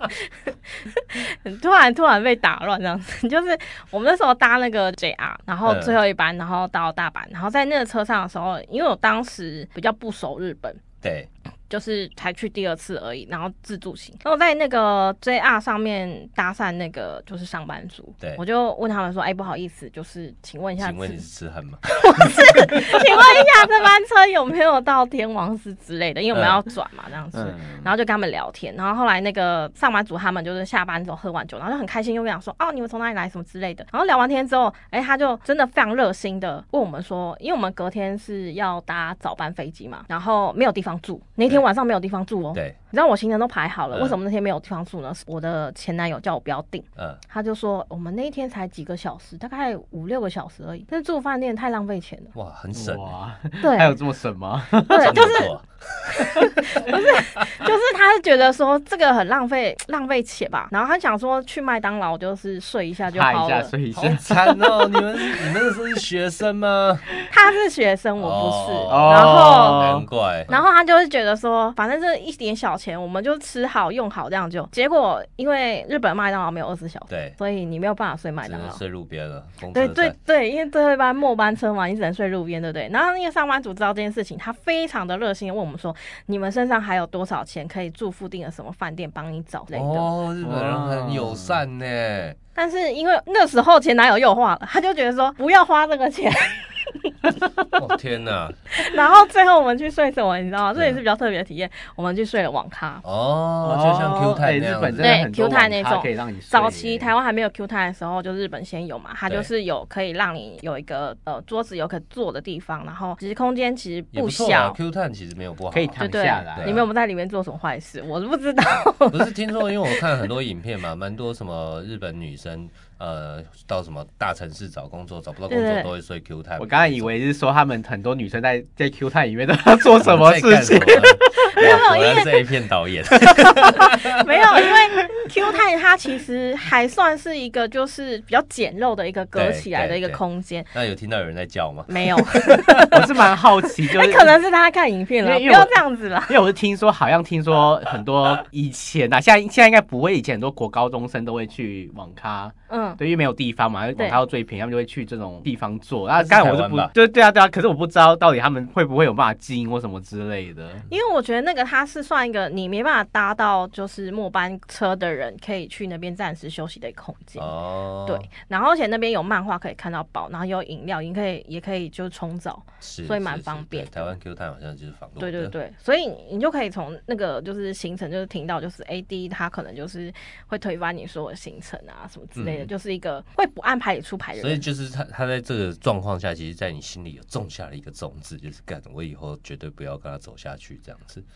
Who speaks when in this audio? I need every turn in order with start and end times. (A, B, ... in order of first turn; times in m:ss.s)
0:00.2-0:10.8 A
0:05.7-0:06.0 B
0:11.0-0:11.3 B
0:11.7-0:21.2 A
0:20.8-0:22.3 B
0:21.9-0:52.3 A
0:26.3-0:26.6 B
0:27.3-0:27.9 C
0:43.9-0:44.2 B
0:52.3-0:53.1 B
0:52.8-0:55.3 C
0:53.6-0:54.0 A
0:54.9-0:55.5 A
0:55.0-0:56.9 B
0:56.1-1:03.7 A
1:03.1-1:05.4 C
1:03.9-1:07.1 B
1:07.3-1:09.9 A
1:08.2-1:10.6 B
1:08.9-1:10.0 C
1:10.5-1:18.8 A
1:17.1-1:17.4 B
1:18.4-1:20.2 B
1:19.7-1:30.1 A
1:29.7-1:32.4 B
1:30.4-1:31.6 C
1:32.6-1:37.5 A
1:37.7-1:38.6 B
1:38.8-1:43.0 A
1:40.8-1:41.0 B
1:43.0-1:45.2 B
1:43.6-1:47.1 C
1:45.0-1:54.8 A
1:54.1-1:56.0 B
1:55.7-1:56.8 C
1:56.0-2:00.0 A
1:56.6-1:56.9 B
1:59.1-2:07.1 B
2:05.5-2:05.9 A
2:06.6-2:11.6 C
2:10.0-2:14.1 B
2:11.5-2:12.4 A
2:13.6-2:20.7 A
2:19.4-2:20.2 B
2:20.7-2:22.7 B
2:21.9-2:23.2 A
2:22.9-2:24.4 C
2:23.8-2:26.4 A
2:25.2-2:40.9 C
2:32.7-2:33.0 A
2:36.2-2:36.9 B
2:40.9-2:47.5 A
2:47.4-2:48.3 B
2:48.1-2:54.2 A
2:52.8-2:55.5 B
2:55.2-3:04.6 A
3:02.4-3:02.7 B
3:04.4-3:11.2 B